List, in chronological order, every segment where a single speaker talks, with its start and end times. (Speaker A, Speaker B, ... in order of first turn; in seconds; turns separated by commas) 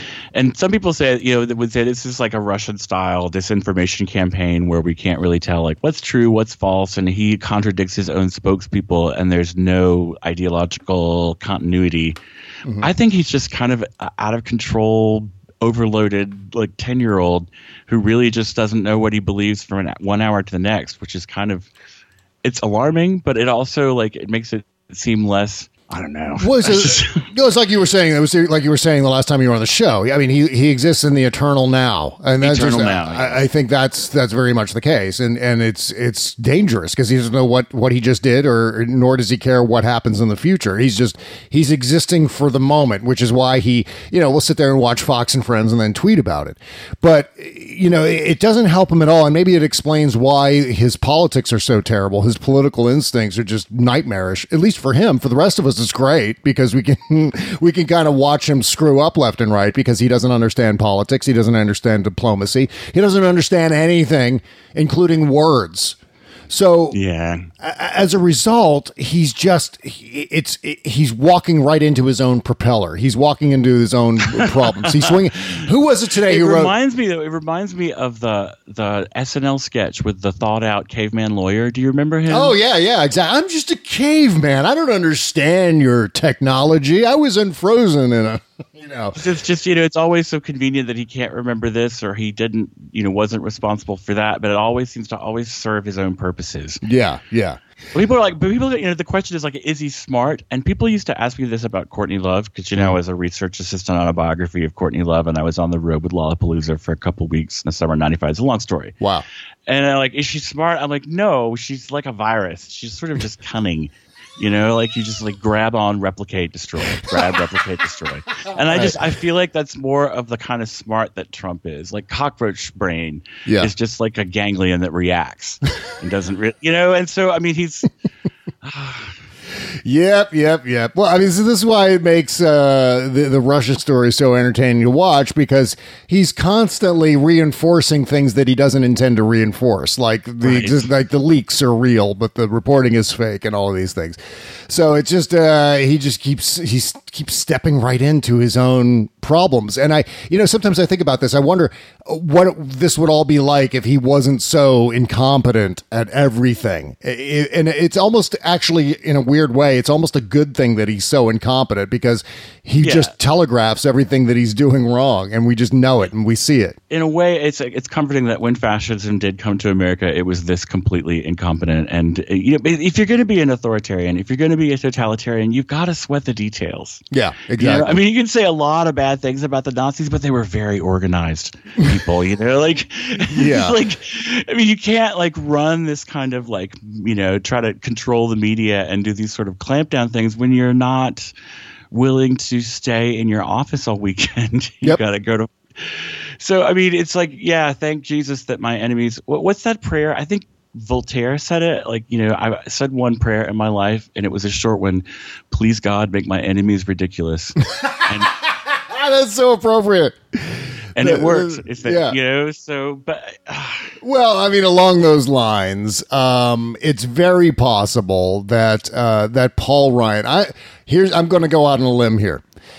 Speaker A: 0.3-12.2, Speaker A: 12.8-21.7, Speaker A: 22.4-27.2, Speaker B: 26.4-66.0, Speaker A: 32.4-33.4, Speaker B: 66.5-67.0, Speaker A: 66.9-67.5, Speaker B: 67.6-76.7, Speaker A: 74.3-75.2, Speaker A: 76.3-82.5, Speaker B: 82.3-89.2, Speaker A: 89.1-96.8, Speaker B: 96.8-97.6, Speaker A: 97.9-109.0, Speaker B: 109.0-109.2, Speaker A: 109.7-127.9, Speaker B: 118.7-119.0, Speaker B: 123.5-123.7, Speaker A: 128.6-129.1, Speaker B: 129.8-144.2, Speaker A: 140.4-140.9, Speaker B: 144.7-166.8, Speaker A: 162.8-163.1, Speaker A: 166.9-191.3, Speaker B: 177.1-178.0, Speaker B: 183.3-183.8, Speaker A: 191.9-208.3, Speaker B: 207.7-212.2, Speaker A: 210.9-213.9, Speaker B: 214.0-222.4